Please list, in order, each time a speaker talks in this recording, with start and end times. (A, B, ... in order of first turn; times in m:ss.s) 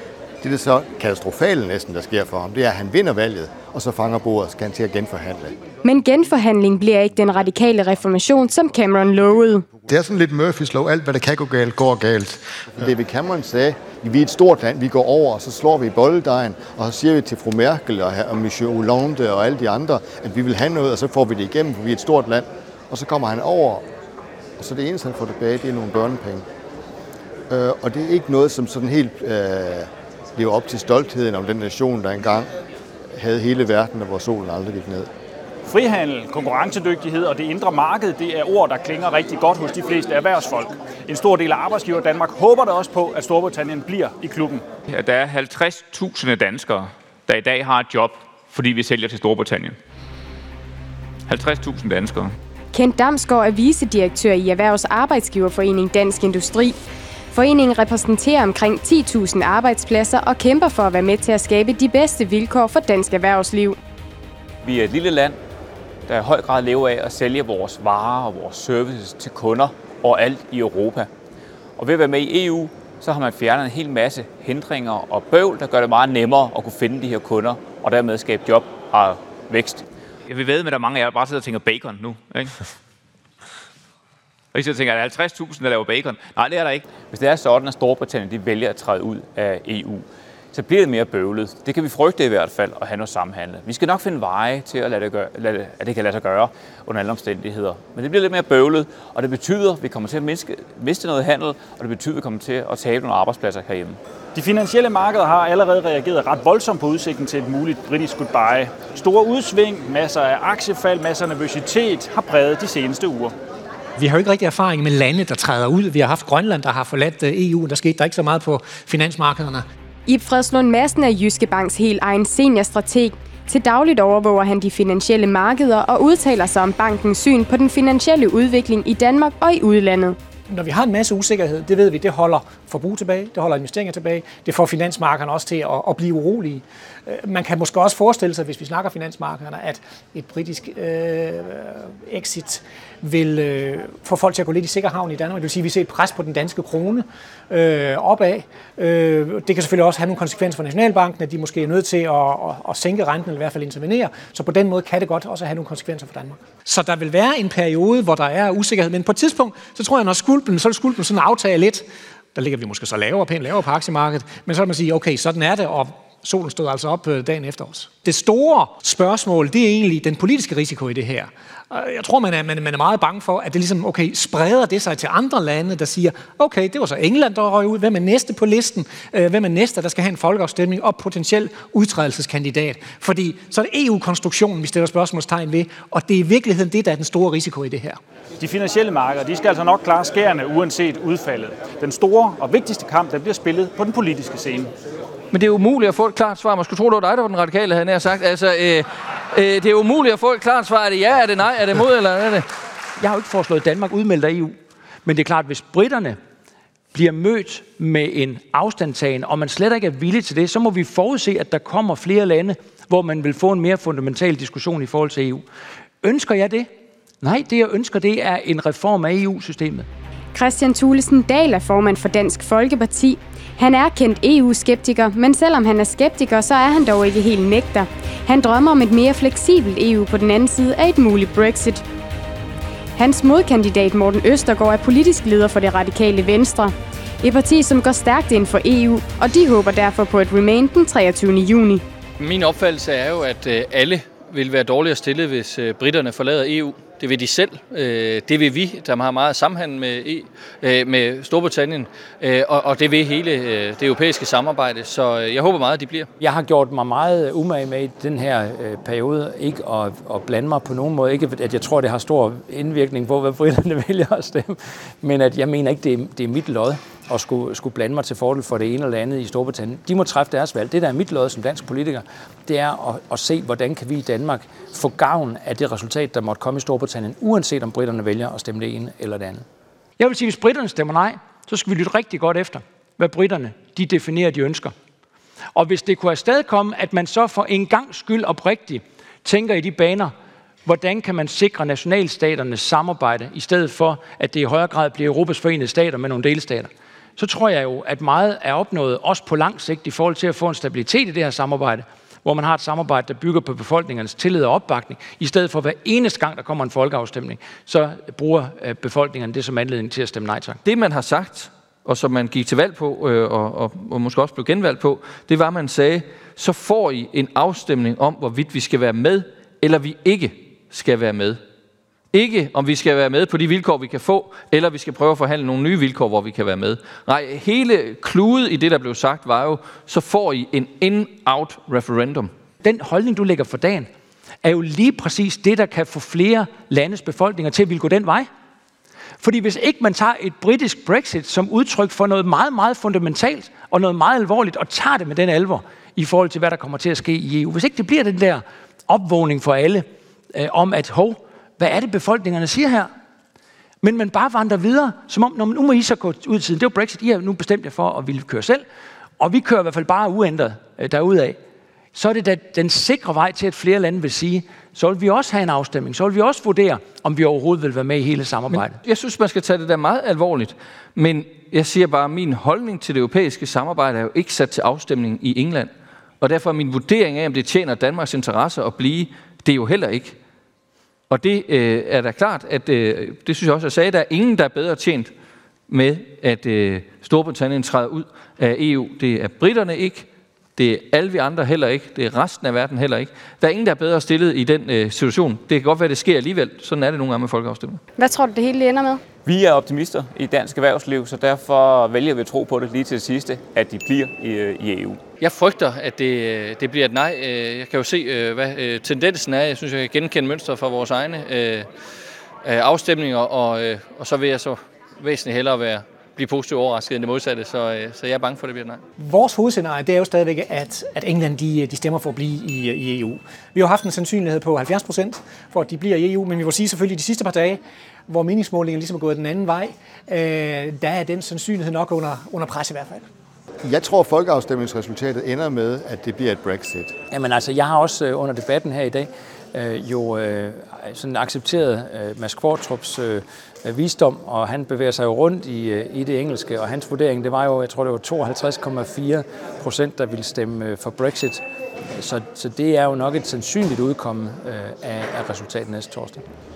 0:00.4-0:05.6 A
0:05.8-0:09.7 B
0:09.9-0:23.8 A
0:24.6-0:26.4 A
0:27.5-0:32.5 A
0:33.2-0:35.1 A
0:35.7-0:44.6 C
0:45.0-0:46.8 D
0:45.0-0:46.1 E
0:47.3-0:49.8 E
0:47.4-0:47.9 D
0:48.6-0:49.5 D
0:51.3-0:52.3 D
0:52.7-0:56.8 B
0:57.3-1:03.8 B
1:04.6-1:05.4 E
1:06.1-1:11.1 E
1:11.8-1:19.8 E
1:20.3-1:21.7 D
1:21.3-1:22.5 E
1:24.5-1:44.0 E
1:44.4-1:53.3 C
1:54.0-1:59.6 F
2:00.1-2:10.2 B
2:10.5-3:08.0 F
3:08.4-3:14.7 C
3:15.3-3:22.4 G
3:23.0-3:26.2 H
3:26.9-3:35.4 H
3:36.0-3:36.7 H
3:37.2-3:39.9 H
3:40.3-3:51.8 B
3:53.0-4:01.8 B
4:02.2-4:16.1 G
4:16.2-4:39.4 H
4:40.0-4:44.7 H
4:45.6-4:50.1 H
4:50.7-5:10.6 H
5:10.6-5:21.4 G
5:22.1-5:32.3 G
5:32.6-5:33.9 H
5:34.4-5:38.3 H
5:39.2-5:52.9 H
5:53.8-5:58.6 H
5:59.2-6:01.4 H
6:01.9-6:08.8 H
6:08.5-6:15.7 G
6:16.2-6:20.2 G
6:21.1-6:25.1 G
6:25.7-6:37.8 G
6:38.0-6:39.0 B
6:39.2-6:45.0 E
6:45.2-6:51.7 G
6:52.4-6:58.8 G
6:59.0-7:13.0 F
7:13.6-7:16.9 A
7:17.1-7:31.4 H
7:31.9-7:36.2 H